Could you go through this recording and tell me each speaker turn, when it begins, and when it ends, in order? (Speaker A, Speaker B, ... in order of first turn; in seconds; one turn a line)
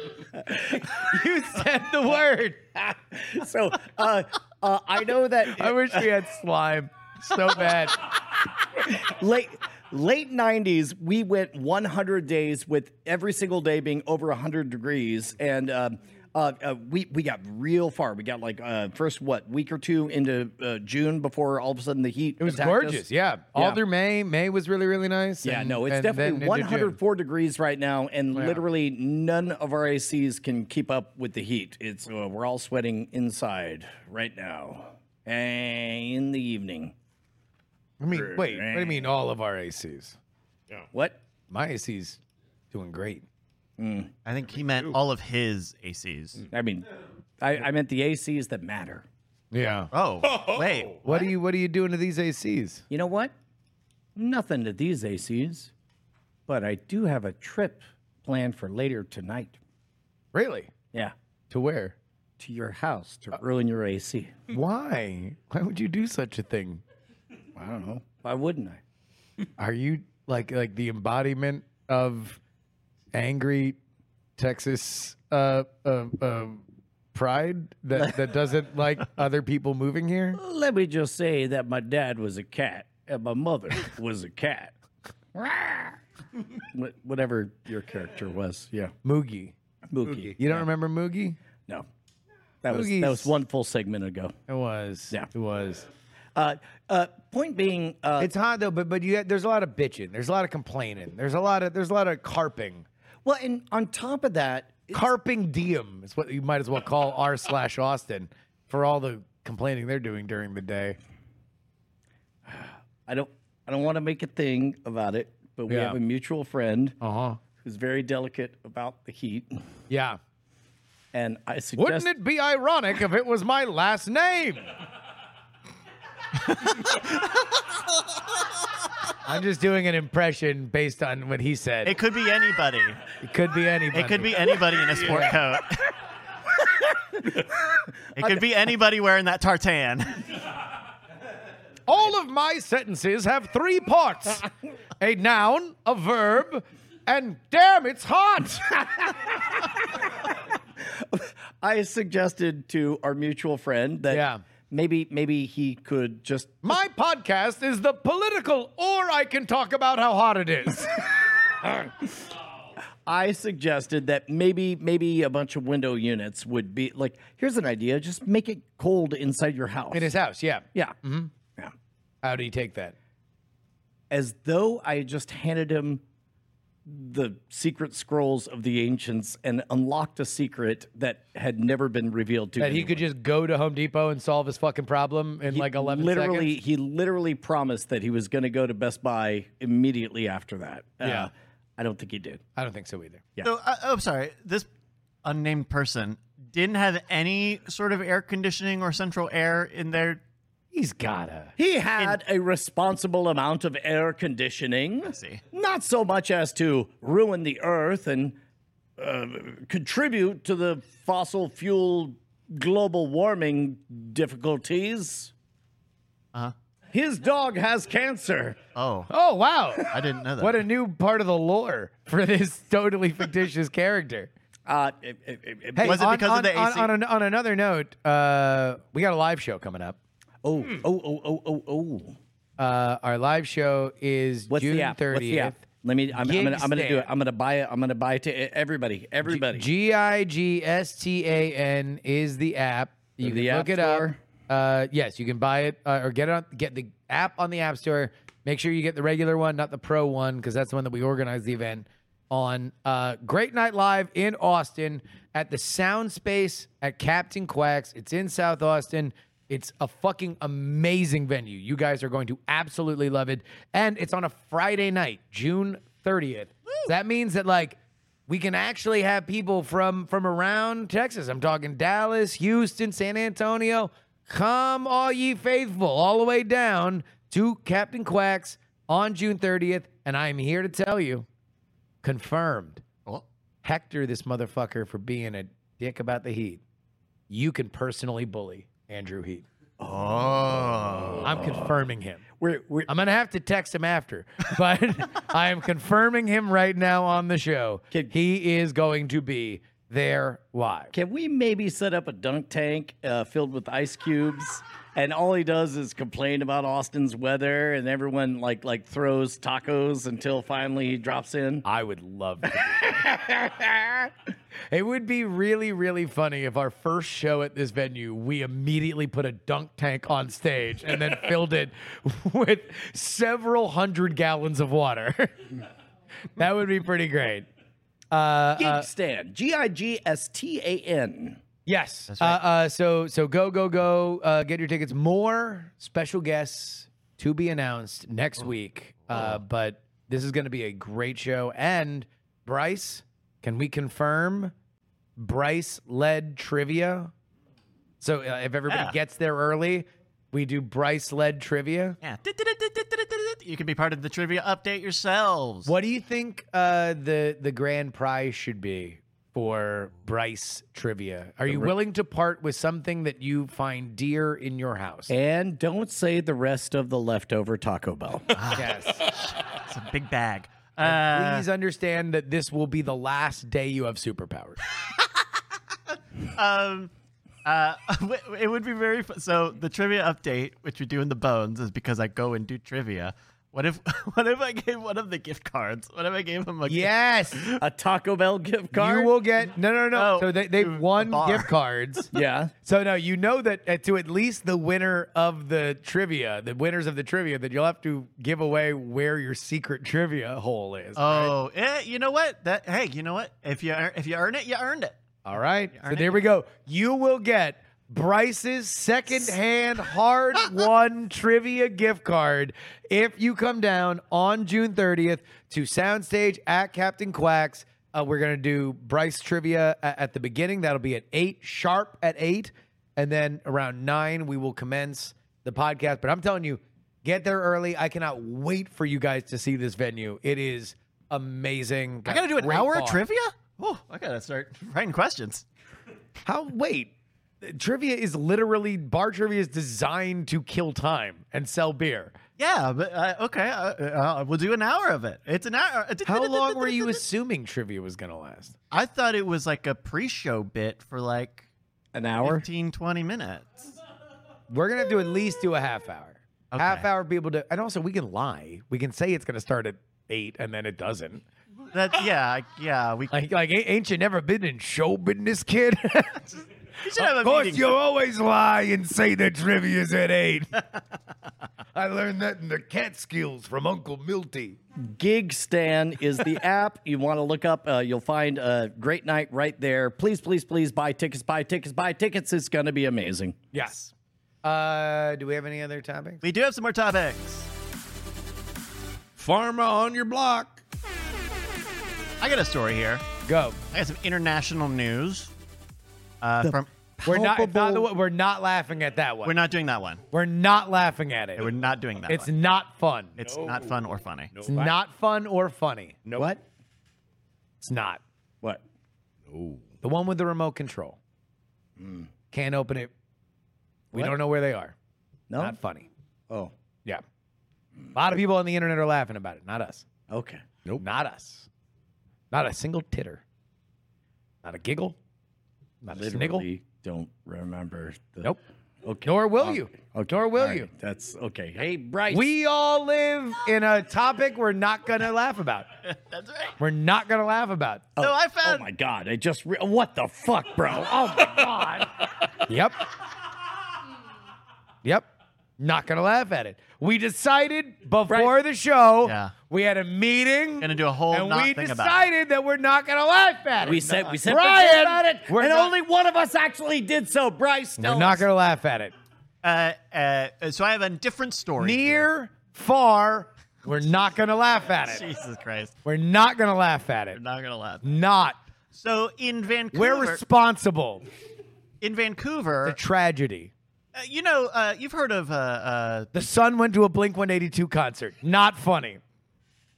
Speaker A: 0.4-0.8
Speaker B: 0.7-2.6
Speaker A: 2.8-6.1
Speaker B: 5.5-8.0
Speaker A: 8.8-23.0
Speaker B: 22.4-27.0
Speaker A: 23.5-23.8
Speaker A: 25.4-36.9
Speaker B: 28.3-28.6
Speaker B: 38.0-40.2
Speaker A: 38.1-39.0
Speaker A: 40.9-41.2
Speaker B: 41.5-42.2
Speaker B: 42.7-43.2
Speaker A: 43.8-44.1
Speaker C: 44.2-46.4
Speaker A: 46.5-46.9
Speaker A: 47.4-49.0
Speaker B: 49.5-49.9
Speaker C: 49.9-51.0
Speaker D: 50.2-50.8
Speaker B: 51.0-52.9
Speaker A: 52.9-53.3
Speaker A: 54.1-55.7
Speaker A: 56.5-59.6
Speaker B: 60.3-60.7
Speaker B: 61.5-61.9
Speaker A: 62.4-64.3
Speaker B: 64.5-66.8
Speaker A: 67.6-68.8
Speaker B: 69.6-72.4
Speaker B: 73.1-73.8
Speaker B: 74.4-76.6
Speaker B: 77.1-80.4
Speaker A: 80.3-84.7
Speaker A: 85.3-86.0
Speaker A: 86.7-88.9
Speaker B: 89.0-89.5
Speaker A: 89.9-90.6
Speaker B: 90.4-91.4
Speaker A: 92.6-94.3
Speaker B: 92.7-93.3
Speaker B: 94.5-95.9
Speaker A: 96.3-98.3
Speaker B: 98.2-102.9
Speaker A: 103.2-105.1
Speaker B: 104.9-111.0
Speaker A: 112.5-117.0
Speaker B: 115.7-116.0
Speaker B: 117.0-117.4
Speaker A: 117.6-119.6
Speaker B: 119.9-120.2
Speaker A: 121.1-122.1
Speaker B: 121.8-124.7
Speaker C: 126.6-127.1
Speaker B: 129.2-132.0
Speaker C: 131.8-133.0
Speaker B: 133.2-135.4
Speaker C: 133.9-135.8
Speaker C: 138.2-140.2
Speaker B: 141.9-144.4
Speaker B: 145.0-148.8
Speaker A: 150.8-156.7
Speaker B: 154.1-154.4
Speaker B: 156.6-161.1
Speaker A: 161.6-161.9
Speaker A: 163.1-170.1
Speaker B: 169.9-171.3
Speaker B: 172.2-172.9
Speaker A: 174.1-176.0
Speaker A: 176.9-183.0
Speaker B: 182.6-186.6
Speaker A: 185.5-192.4
Speaker B: 191.0-191.3
Speaker B: 192.6-193.3
Speaker C: 193.4-194.7
Speaker C: 195.2-200.2
Speaker B: 200.7-201.5
Speaker A: 201.6-208.4
Speaker C: 205.1-205.4
Speaker A: 209.0-215.3
Speaker A: 216.9-218.6
Speaker C: 218.7-219.1
Speaker B: 219.1-224.3
Speaker C: 219.9-220.6
Speaker A: 224.7-226.0
Speaker B: 225.7-230.0
Speaker C: 225.8-226.9
Speaker A: 230.4-232.2
Speaker B: 232.6-237.1
Speaker A: 234.5-239.7
Speaker B: 239.2-281.2
Speaker A: 243.2-244.2
Speaker C: 266.7-266.9
Speaker B: 282.0-282.8
Speaker B: 283.6-286.6
Speaker B: 287.3-289.4
Speaker A: 289.8-291.7
Speaker C: 289.9-291.3
Speaker B: 291.2-292.2
Speaker A: 292.4-292.9
Speaker B: 292.9-300.9
Speaker A: 300.9-311.6
Speaker B: 311.6-313.0
Speaker A: 312.8-314.1
Speaker B: 314.7-325.5
Speaker B: 326.4-327.5
Speaker B: 328.1-328.9
Speaker A: 328.6-331.4
Speaker B: 331.6-344.5
Speaker C: 332.1-332.4
Speaker B: 345.2-347.1
Speaker B: 348.0-352.0
Speaker C: 348.7-348.9
Speaker C: 352.0-355.7
Speaker B: 355.6-365.1
Speaker A: 361.5-361.7
Speaker A: 365.1-368.3
Speaker C: 368.3-371.4
Speaker B: 368.5-369.0
Speaker B: 370.8-374.6
Speaker C: 376.3-376.9
Speaker C: 377.4-387.6
Speaker B: 386.6-387.4
Speaker A: 387.6-389.1
Speaker B: 388.7-392.1
Speaker C: 389.9-392.1
Speaker A: 392.1-392.5
Speaker B: 392.6-401.4
Speaker C: 400.9-405.0
Speaker B: 405.2-433.0
Speaker C: 405.7-406.2
Speaker C: 432.1-435.4
Speaker B: 436.2-442.1
Speaker C: 442.4-447.0
Speaker B: 446.1-448.5
Speaker C: 448.7-451.5
Speaker A: 451.9-452.4
Speaker C: 452.2-453.7
Speaker B: 454.5-461.2
Speaker C: 456.5-456.9
Speaker C: 461.7-463.1
Speaker B: 463.1-466.4
Speaker C: 466.8-467.7
Speaker B: 466.9-470.6
Speaker B: 471.7-474.6
Speaker A: 474.8-483.4
Speaker B: 483.5-483.9
Speaker B: 484.4-486.2
Speaker C: 486.2-487.5
Speaker D: 489.2-490.6
Speaker C: 492.2-493.0
Speaker B: 493.2-493.6
Speaker C: 493.7-495.3
Speaker C: 496.2-496.7
Speaker A: 496.4-497.9
Speaker B: 497.0-499.4
Speaker C: 499.2-500.0
Speaker B: 500.1-501.5
Speaker C: 501.4-502.3
Speaker B: 502.1-503.1
Speaker C: 503.2-504.3
Speaker D: 503.2-503.7
Speaker D: 504.3-504.7
Speaker B: 504.4-506.0
Speaker A: 506.1-506.4
Speaker B: 507.6-508.0
Speaker D: 509.3-509.6
Speaker B: 509.8-511.0
Speaker A: 511.8-512.1
Speaker B: 512.3-512.9
Speaker B: 513.9-514.7
Speaker A: 515.3-515.6
Speaker B: 515.4-515.9
Speaker B: 517.9-519.9
Speaker A: 520.1-520.4
Speaker B: 520.8-521.5
Speaker B: 522.3-523.2
Speaker B: 524.4-525.0
Speaker B: 525.8-526.5
Speaker A: 525.9-532.3
Speaker B: 529.0-530.7
Speaker B: 532.1-535.7
Speaker C: 535.8-536.5
Speaker B: 536.6-537.9
Speaker A: 538.0-542.0
Speaker C: 538.0-538.6
Speaker B: 542.4-542.9
Speaker B: 545.6-555.7
Speaker A: 548.1-548.4
Speaker C: 549.0-549.3
Speaker C: 550.6-552.1
Speaker A: 553.6-558.2
Speaker B: 557.8-558.9
Speaker C: 559.4-562.1
Speaker B: 561.6-565.0
Speaker C: 564.8-565.7
Speaker B: 565.9-567.2
Speaker C: 567.1-567.9
Speaker B: 567.8-568.4
Speaker C: 568.7-570.2
Speaker B: 569.7-571.1
Speaker C: 571.8-572.8
Speaker B: 572.6-573.5
Speaker C: 573.9-576.1
Speaker B: 576.1-579.0